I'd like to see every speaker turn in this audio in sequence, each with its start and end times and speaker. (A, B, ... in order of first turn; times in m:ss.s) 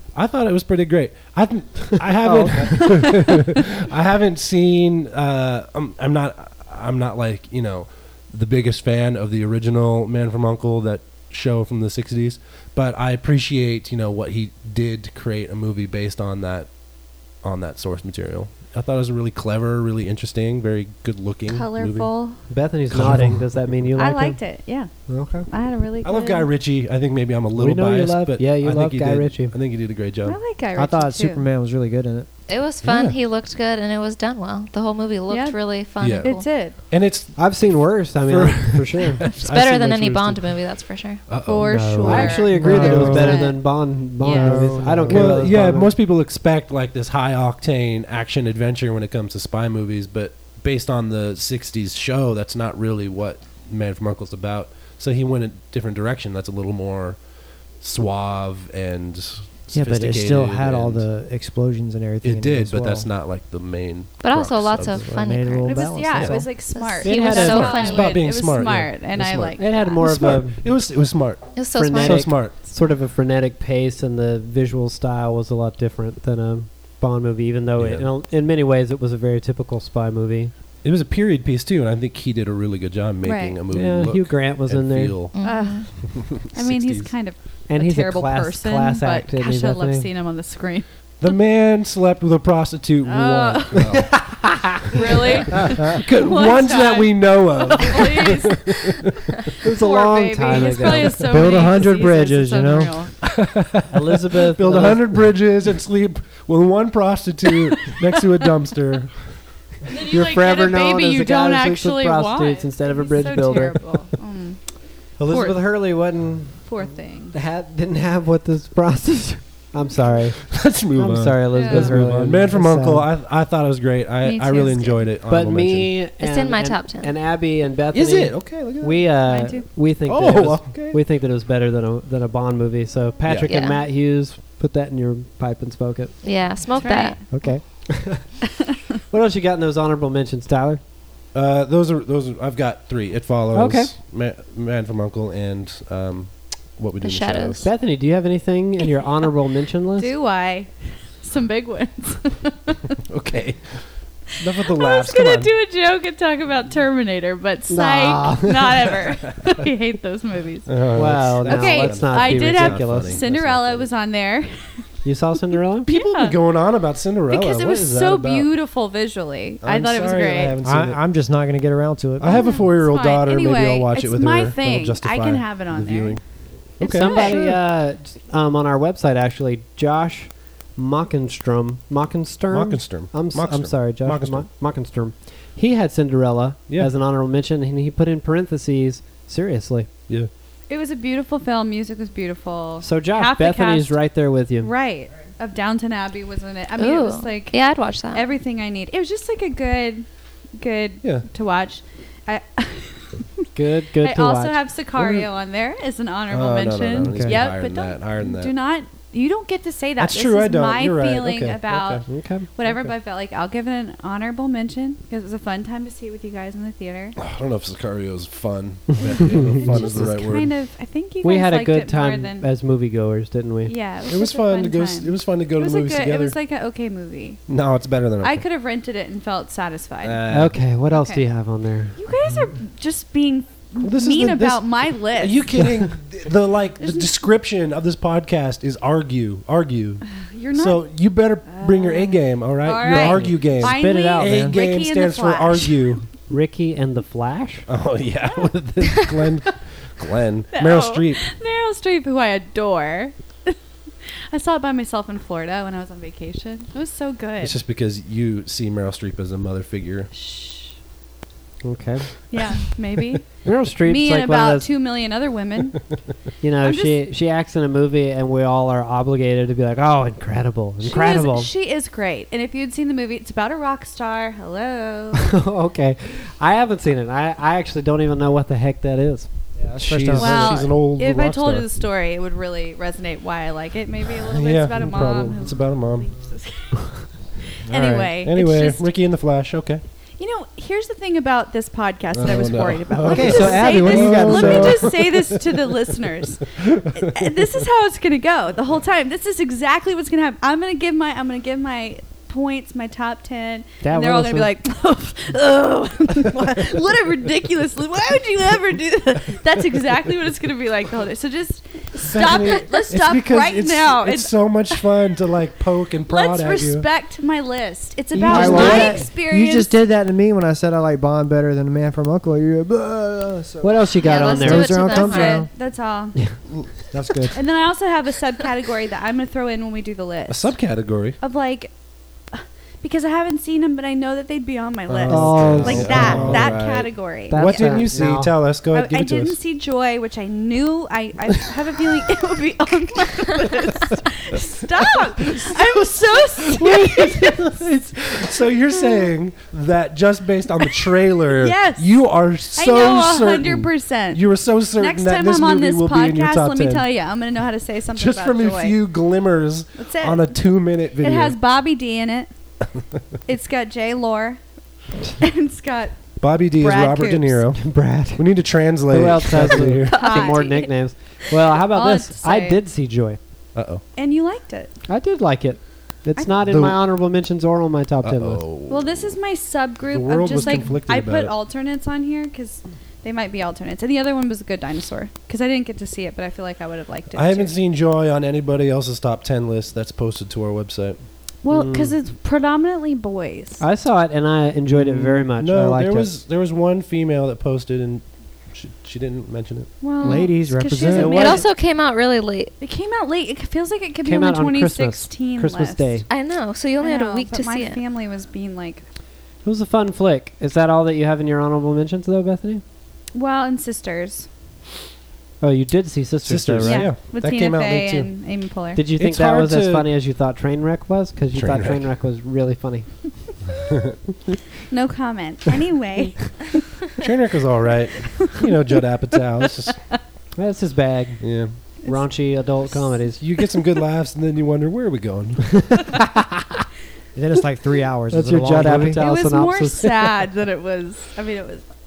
0:00.1-0:22.1 A
0:02.2-0:03.4 B
0:21.5-0:22.4 C
0:22.5-0:24.4 B
0:22.9-0:23.4 A
0:23.0-0:23.4 D
0:23.9-0:26.5 C
0:25.1-0:25.5 B
0:26.0-0:30.4 A
0:27.6-0:29.5 B
0:30.2-0:31.4 C
0:30.7-0:32.3 D
0:32.5-0:36.6 E
0:32.8-0:33.2 A
0:35.3-0:36.8 C
0:36.0-0:40.5 A
0:37.3-0:39.3 B
0:39.4-0:41.2 E
0:41.3-0:43.3 A
0:41.4-0:44.7 C
0:41.7-0:45.9 B
0:41.8-0:43.6 D
0:44.2-0:45.7 D
0:45.1-1:01.0 A
0:59.7-1:03.1 D
1:02.2-1:05.1 A
1:04.2-1:08.3 E
1:05.0-1:06.6 D
1:05.6-1:09.9 C
1:07.0-1:07.9 B
1:07.4-1:12.5 A
1:09.6-1:10.6 B
1:11.6-1:12.3 E
1:11.7-1:20.5 B
1:17.8-1:18.1 A
1:20.8-1:27.1 A
1:23.2-1:23.6 C
1:23.7-1:25.2 B
1:25.3-1:25.9 E
1:25.4-1:30.9 C
1:27.7-1:30.1 B
1:31.2-1:39.0 A
1:33.0-1:34.2 C
1:34.9-1:43.1 C
1:39.6-1:41.3 B
1:41.3-1:43.1 D
1:43.4-1:49.4 A
1:43.9-1:45.3 B
1:49.8-1:55.6 C
1:50.1-1:53.8 B
1:53.4-1:53.7 A
1:55.2-1:56.7 B
1:56.6-1:57.3 C
1:57.3-2:03.1 B
2:00.5-2:06.1 A
2:01.5-2:02.0 C
2:04.2-2:05.1 C
2:05.2-2:16.3 B
2:06.1-2:07.1 E
2:07.9-2:09.1 A
2:09.3-2:09.8 C
2:10.0-2:11.0 A
2:13.4-2:13.8 E
2:16.2-2:17.3 E
2:16.8-2:17.2 C
2:17.3-2:17.6 D
2:17.3-2:18.4 B
2:19.1-2:20.8 B
2:21.3-2:27.6 A
2:23.5-2:23.9 B
2:27.0-2:27.7 E
2:27.6-2:30.1 B
2:30.0-2:32.9 C
2:33.1-2:35.5 A
2:34.6-2:44.9 C
2:37.7-2:38.8 B
2:40.7-2:43.9 A
2:40.9-2:43.4 B
2:45.0-2:45.9 B
2:45.8-2:48.5 A
2:45.9-2:46.4 C
2:47.3-2:50.6 C
2:49.6-2:51.0 A
2:50.6-2:52.5 D
2:52.2-2:57.6 A
2:52.2-2:56.2 C
2:56.8-2:57.4 C
2:56.8-3:09.9 B
3:02.5-3:04.4 A
3:10.7-3:14.0 C
3:12.8-3:14.7 B
3:14.6-3:23.5 C
3:16.8-3:18.2 E
3:23.5-3:24.6 B
3:24.0-3:37.2 C
3:24.9-3:25.3 A
3:26.3-3:28.5 A
3:27.1-3:27.4 D
3:30.0-3:32.0 A
3:32.1-3:32.5 B
3:37.2-3:40.5 A
3:39.1-3:42.5 C
3:41.2-3:43.7 B
3:43.6-3:47.5 C
3:44.1-3:46.4 A
3:47.5-3:48.4 A
3:48.2-3:50.2 C
3:50.0-3:50.6 A
3:50.3-3:52.0 B
3:50.9-3:51.2 C
3:52.0-3:55.5 C
3:53.8-4:06.0 A
3:56.8-3:57.1 C
4:00.1-4:00.9 C
4:01.4-4:06.0 C
4:02.9-4:04.4 B
4:04.2-4:04.6 D
4:06.3-4:07.7 B
4:07.7-4:11.2 A
4:10.5-4:17.5 C
4:17.4-4:20.1 A
4:20.1-4:20.7 C
4:21.6-4:22.1 B
4:22.3-4:25.9 C
4:23.4-4:24.7 B
4:26.4-4:31.5 B
4:26.6-4:27.0 C
4:30.8-4:35.3 C
4:35.3-4:39.3 B
4:39.6-4:40.7 D
4:39.8-4:41.6 A
4:40.1-4:48.9 C
4:44.3-4:46.1 A
4:47.6-4:48.1 D
4:48.2-4:49.8 A
4:50.2-5:14.9 C
4:52.1-4:55.7 A
4:53.0-4:55.0 D
4:56.8-4:57.4 A
5:03.8-5:04.5 B
5:12.0-5:16.8 A
5:16.1-5:19.8 C
5:18.1-5:19.1 B
5:18.3-5:25.5 D
5:18.5-5:18.9 E
5:23.6-5:24.8 B
5:24.0-5:25.4 E
5:24.0-5:26.2 C
5:26.9-5:27.4 D
5:27.3-5:30.5 C
5:30.3-5:31.2 A
5:31.2-5:31.7 C
5:32.3-5:37.7 C
5:34.9-5:39.4 A
5:35.1-5:36.6 B
5:35.3-5:36.3 D
5:37.3-5:38.4 B
5:38.7-5:47.6 C
5:45.2-5:45.8 A
5:46.4-5:56.8 A
5:48.7-5:49.1 C
5:51.4-5:58.8 C
5:58.0-6:01.4 A
5:59.8-6:02.3 C
6:03.2-6:04.4 C
6:05.1-6:07.5 C
6:06.2-6:10.0 A
6:07.5-6:13.2 B
6:09.9-6:12.6 C
6:10.1-6:10.4 E
6:13.5-6:13.8 A
6:14.0-6:14.7 C
6:14.9-6:18.4 B
6:16.4-6:16.8 A
6:18.0-6:19.2 A
6:18.7-6:27.6 C
6:19.9-6:21.3 A
6:27.1-6:31.0 A
6:31.4-6:33.6 C
6:31.5-6:31.9 B
6:33.6-6:36.1 B
6:34.7-6:39.7 A
6:39.8-6:41.5 C
6:40.0-6:40.3 E
6:40.0-6:41.3 D
6:40.9-6:42.5 E
6:41.0-6:41.4 B
6:42.6-6:46.0 C
6:44.0-6:46.0 B
6:46.1-6:47.8 E
6:46.8-6:48.8 C
6:49.4-6:52.6 B
6:53.1-6:54.3 C
6:55.4-6:56.9 B
6:56.2-6:58.1 A
6:56.6-6:58.8 C
6:58.7-7:03.1 B
6:59.0-6:59.9 A
7:01.3-7:01.8 A
7:04.7-7:06.5 C
7:07.0-7:09.8 A
7:08.0-7:08.5 C
7:10.4-7:13.2 B
7:11.2-7:11.6 A
7:11.8-7:13.5 C
7:13.2-7:15.9 A
7:15.7-7:16.4 B
7:17.1-7:19.0 D
7:18.1-7:20.1 B
7:18.9-7:21.6 C